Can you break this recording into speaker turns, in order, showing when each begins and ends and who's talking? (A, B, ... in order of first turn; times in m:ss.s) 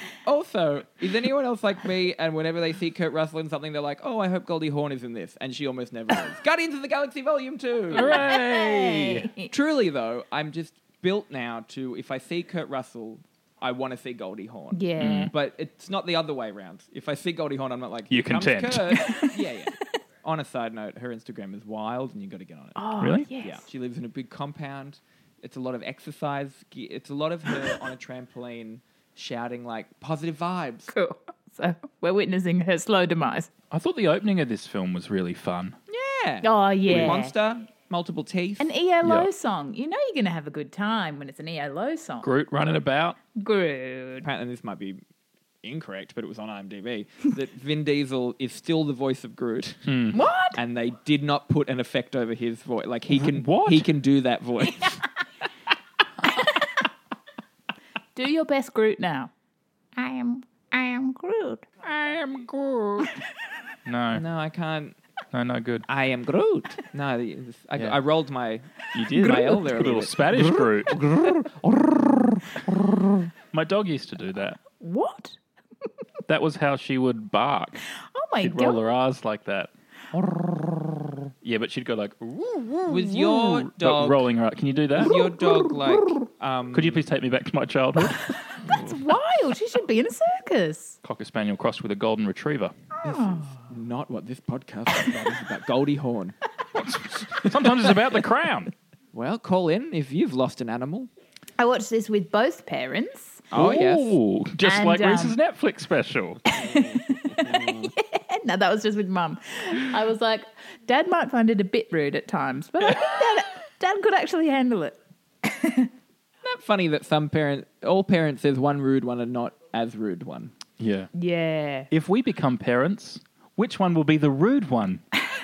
0:00.2-0:08.2 A
0:07.9-0:09.3 B
0:07.9-0:09.5 C
0:09.5-0:22.9 A
0:14.7-0:15.3 C
0:15.0-0:15.3 B
0:18.1-0:19.2 B
0:22.8-0:23.6 C
0:23.0-0:23.3 B
0:23.4-0:30.9 A
0:30.9-0:33.5 C
0:33.7-0:35.8 B
0:35.9-0:38.7 A
0:36.4-0:37.3 C
0:36.9-0:37.2 B
0:38.6-0:42.3 C
0:39.0-0:39.3 B
0:42.2-0:43.2 B
0:43.4-0:44.3 C
0:44.2-0:45.0 A
0:45.6-0:49.9 A
0:49.9-0:50.2 B
0:50.1-0:50.6 C
0:50.5-0:55.0 A
0:53.1-0:53.9 B
0:58.2-0:59.3 C
1:00.0-1:01.7 C
1:01.8-1:03.1 B
1:03.8-1:04.2 B
1:04.1-1:05.0 A
1:05.3-1:05.8 B
1:05.9-1:12.5 A
1:08.9-1:11.2 B
1:13.5-1:14.6 B
1:14.8-1:15.4 C
1:16.3-1:17.8 B
1:18.1-1:19.0 C
1:18.4-1:20.7 B
1:21.4-1:25.4 B
1:22.8-1:24.3 A
1:25.0-1:27.0 A
1:25.0-1:25.4 C
1:26.7-1:28.9 B
1:28.6-1:31.0 C
1:31.0-1:32.7 B
1:33.0-1:33.7 C
1:33.0-1:36.4 A
1:36.7-1:38.7 B
1:37.4-1:38.0 A
1:39.1-1:41.1 A
1:41.6-1:43.5 C
1:43.5-1:44.2 A
1:43.5-1:46.4 B
1:44.6-1:45.4 C
1:46.5-1:55.9 C
1:46.6-1:47.9 A
1:56.4-2:00.5 A
2:00.8-2:01.1 B
2:01.1-2:01.9 C
2:01.9-2:05.0 B